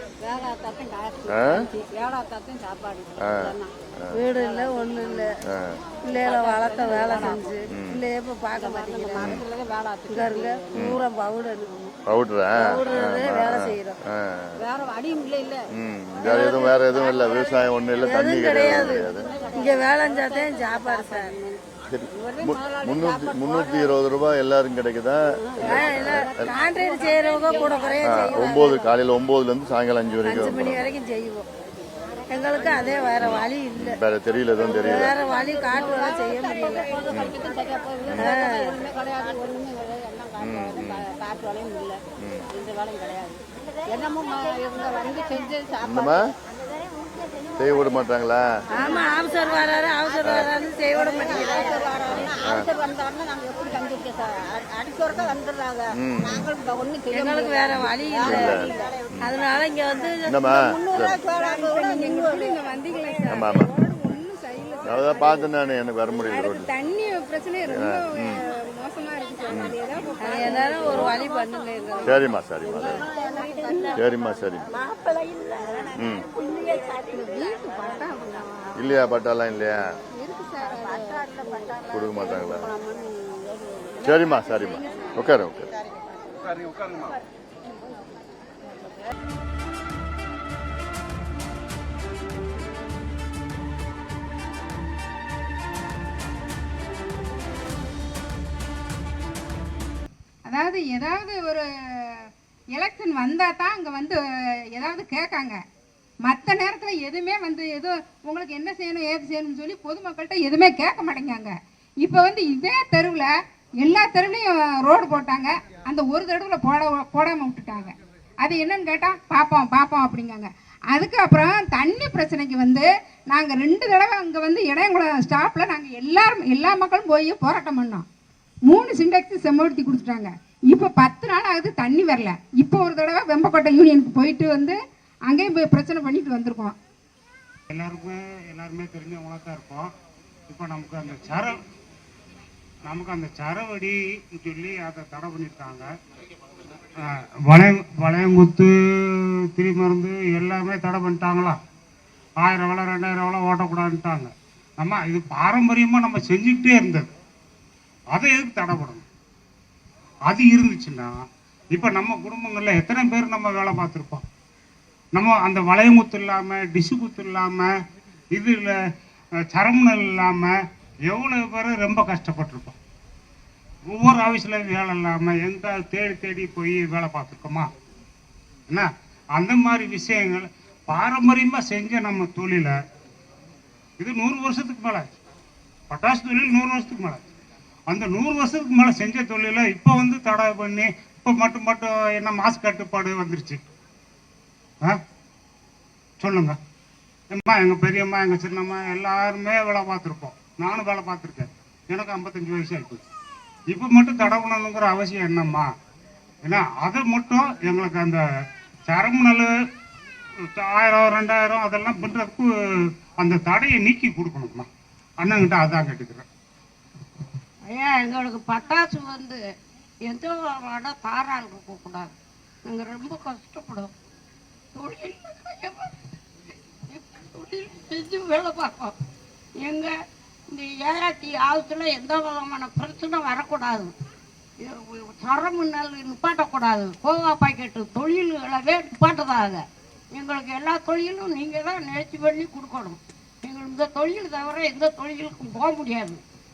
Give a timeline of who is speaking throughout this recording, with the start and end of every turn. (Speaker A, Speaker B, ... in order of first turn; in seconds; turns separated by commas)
Speaker A: 0.2-3.7, Speaker B: 1.3-1.7, Speaker B: 3.2-3.5, Speaker C: 4.1-5.4, Speaker A: 4.4-5.2, Speaker B: 5.5-5.8, Speaker C: 6.0-9.4, Speaker A: 6.1-7.5, Speaker B: 7.7-8.0, Speaker A: 8.6-10.9, Speaker B: 9.2-9.4, Speaker C: 10.1-12.0, Speaker B: 10.8-11.0, Speaker B: 12.1-14.6, Speaker C: 12.6-14.0, Speaker A: 14.6-15.7, Speaker B: 15.8-19.3, Speaker A: 16.2-24.0, Speaker C: 16.2-16.8, Speaker C: 18.0-21.3, Speaker B: 21.9-26.6, Speaker A: 25.4-28.8, Speaker C: 25.6-28.8, Speaker B: 28.0-30.9, Speaker C: 30.2-31.5, Speaker C: 32.3-34.0, Speaker A: 32.5-33.0, Speaker B: 33.2-35.2, Speaker A: 34.6-46.3, Speaker C: 34.7-36.9, Speaker B: 37.1-37.4, Speaker B: 38.1-38.3, Speaker C: 38.1-38.8, Speaker B: 40.4-41.0, Speaker B: 42.2-42.5, Speaker B: 45.8-46.3, Speaker B: 47.6-48.5, Speaker A: 48.7-49.1, Speaker C: 48.7-52.2, Speaker B: 50.2-50.5, Speaker A: 50.9-59.3, Speaker B: 52.0-52.7, Speaker B: 56.0-56.5, Speaker C: 57.1-60.4, Speaker B: 57.7-59.4, Speaker B: 60.3-61.2, Speaker A: 60.5-63.1, Speaker D: 61.1-65.5, Speaker B: 63.3-63.7, Speaker B: 64.8-66.7, Speaker D: 66.1-71.5, Speaker B: 67.7-68.4, Speaker B: 69.5-71.2, Speaker C: 70.2-72.2, Speaker B: 72.0-73.0, Speaker A: 72.6-74.9, Speaker D: 73.3-73.8, Speaker B: 73.9-74.7, Speaker C: 74.9-75.6, Speaker A: 75.6-76.0, Speaker B: 76.0-76.3, Speaker D: 76.4-78.9, Speaker B: 78.8-79.8, Speaker D: 80.2-81.3, Speaker A: 80.6-85.2, Speaker B: 81.9-82.7, Speaker B: 84.0-85.7, Speaker D: 100.5-105.6, Speaker D: 106.2-128.1, Speaker D: 128.7-136.8, Speaker E: 137.7-139.9, Speaker E: 140.5-141.6, Speaker E: 142.8-145.9, Speaker E: 147.0-148.7, Speaker E: 149.5-151.6, Speaker E: 152.4-157.1, Speaker E: 158.1-159.1, Speaker E: 160.3-161.1, Speaker E: 161.7-164.2, Speaker E: 165.1-167.7, Speaker E: 168.3-168.7, Speaker E: 169.5-170.5, Speaker E: 171.1-172.8, Speaker E: 173.9-177.7, Speaker E: 178.7-182.8, Speaker E: 184.0-185.1, Speaker E: 185.9-187.3, Speaker E: 187.9-193.6, Speaker E: 196.2-196.6, Speaker E: 197.3-203.0, Speaker E: 203.7-205.7, Speaker E: 206.4-208.2, Speaker E: 208.9-209.5, Speaker E: 210.5-212.5, Speaker E: 213.2-214.7, Speaker E: 215.2-216.2, Speaker F: 217.7-219.4, Speaker F: 220.1-222.1, Speaker F: 222.7-223.9, Speaker F: 224.8-225.9, Speaker F: 226.9-228.9, Speaker F: 229.6-229.9, Speaker F: 230.5-233.9, Speaker F: 234.6-246.2